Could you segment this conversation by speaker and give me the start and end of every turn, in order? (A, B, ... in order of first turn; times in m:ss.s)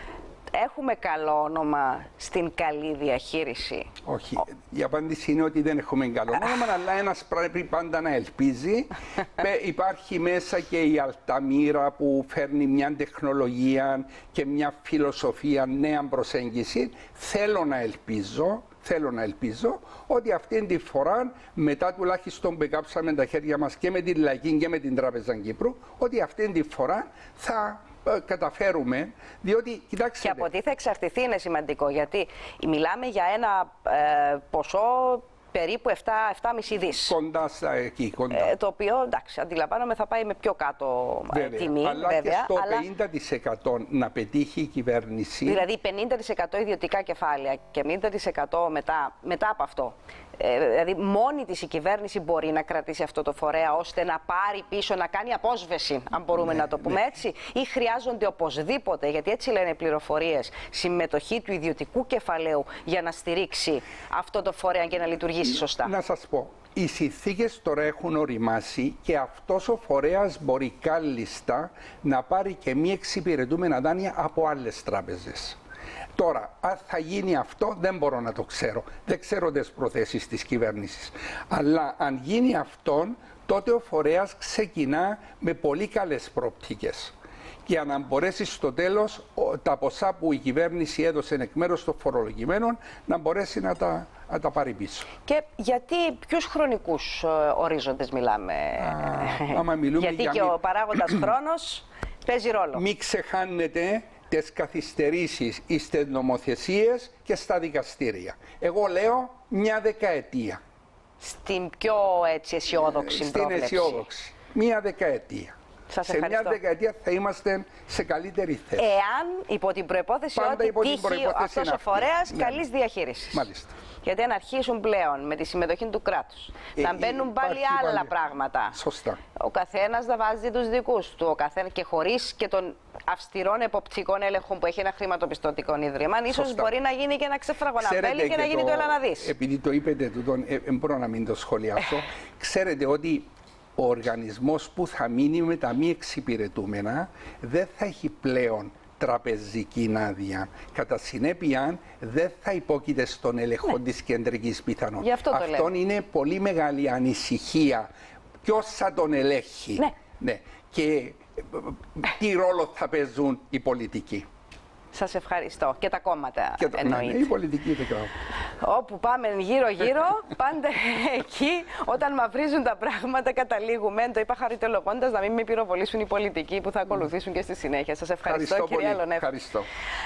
0:00.5-0:03.9 A
0:04.1-0:30.5 B
0:30.2-0:37.2 A
0:37.0-0:38.5 B
0:38.3-0:42.9 A
0:41.3-0:45.6 B
0:45.4-1:05.9 A
0:56.4-0:57.0 B
1:05.8-1:15.6 B
1:16.2-1:27.1 B
1:27.7-1:35.1 B
1:35.3-1:42.8 A
1:38.8-1:41.3 B
1:42.7-1:50.6 B
1:51.2-1:54.0 A
1:52.7-1:59.0 B
1:55.9-1:56.6 A
1:58.8-2:03.5 A
2:00.3-2:02.6 B
2:03.3-2:03.8 B
2:04.0-2:08.8 A
2:06.8-2:08.1 B
2:08.7-2:09.2 B
2:09.3-2:19.3 A
2:16.3-2:16.7 B
2:17.8-2:37.9 B
2:35.0-2:35.7 A
2:38.4-2:44.3 B
2:44.9-2:47.3 A
2:46.6-2:48.1 B
2:48.6-2:59.3 A
2:58.2-2:59.7 B